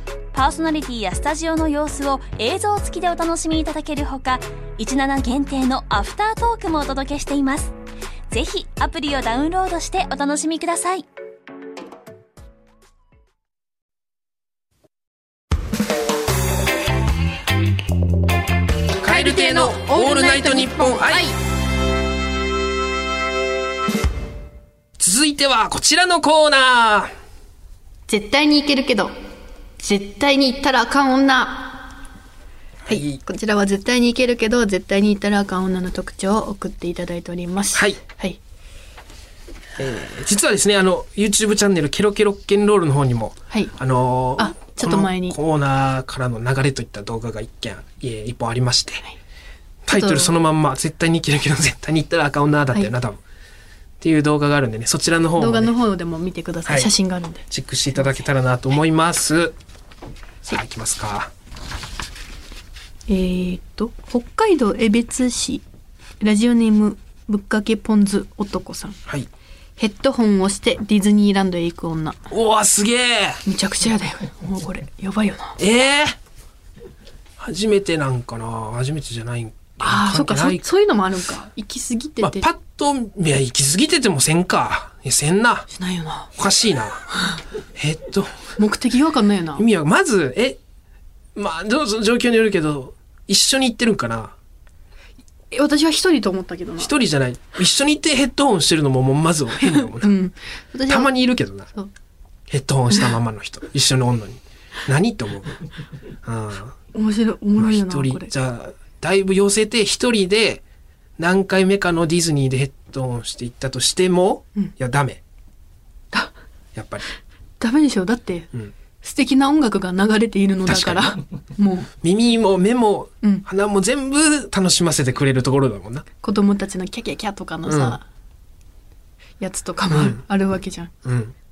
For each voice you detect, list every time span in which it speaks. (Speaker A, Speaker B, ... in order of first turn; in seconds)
Speaker A: 0.3-7.7, 8.3-11.0
Speaker B: 19.0-21.3, 25.0-27.1, 32.9-33.2, 37.7-38.0, 39.8-49.0, 49.9-53.2, 54.0-55.7, 57.5-59.5, 60.4-61.3, 72.3-73.4, 75.6-76.2, 77.4-80.6, 82.2-85.7, 86.3-87.1, 87.7-88.4, 89.6-90.6, 91.3-94.3, 96.8-100.1, 100.9-101.7, 102.5-105.6, 106.2-106.8, 107.6-110.6, 111.2-115.2, 116.7-117.0, 120.7-121.2, 122.0-126.0, 127.7-128.0, 129.9-130.2, 131.0-131.3
Speaker C: 19.0-21.3, 28.1-29.1, 29.8-31.9, 32.9-38.4, 44.4-45.4, 49.9-50.3, 55.4-57.5, 63.1-65.6, 66.2-69.0, 69.8-72.2, 73.4-75.6, 79.8-82.5, 85.7-86.3, 88.6-89.6, 95.5-96.9, 99.6-101.1, 106.9-108.3, 117.6-118.5, 119.0-121.9, 126.2-128.0, 129.4-130.9